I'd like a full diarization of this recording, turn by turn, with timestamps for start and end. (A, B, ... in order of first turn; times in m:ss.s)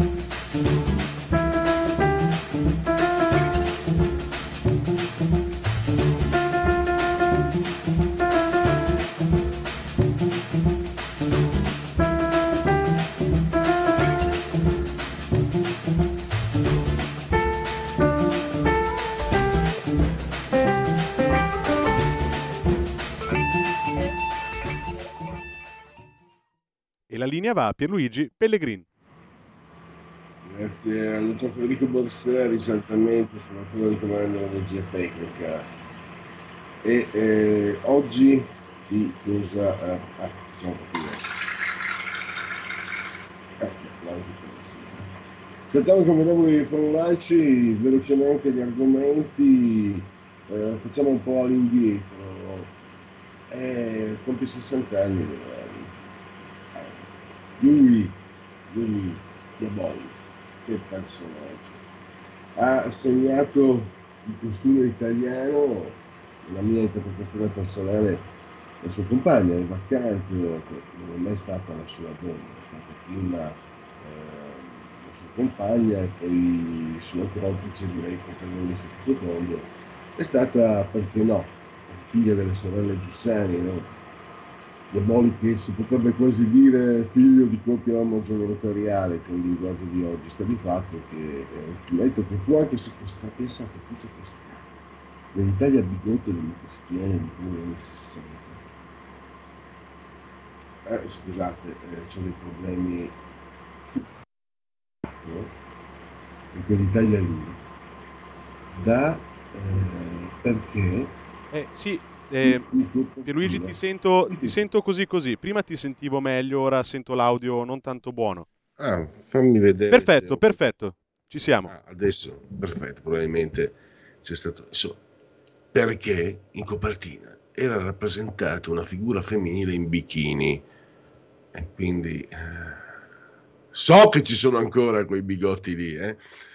0:27.1-0:28.8 A
0:30.4-0:35.7 B
0:36.8-0:41.3 B
0:43.6-0:45.1 B
0:45.7-0:52.7 B
0:53.5-0:55.9 B
0:56.7-0:57.0 B
0:57.6-0:58.2 B
0:58.7-1:01.8 B
1:02.6-1:08.3 B
1:08.8-1:23.9 B
1:24.9-1:34.6 B
1:35.3-1:38.6 B
1:40.8-1:43.1 B
1:45.1-1:45.5 B
1:46.5-1:47.6 B
1:48.7-1:51.1 B
1:51.5-1:52.7 A
1:52.4-1:54.6 B
1:53.2-1:58.4 A
1:58.8-2:00.5 B
1:59.9-2:01.7 A
2:01.6-2:05.0 B
2:05.7-2:10.6 B
2:11.5-2:12.9 B
2:13.7-2:16.2 B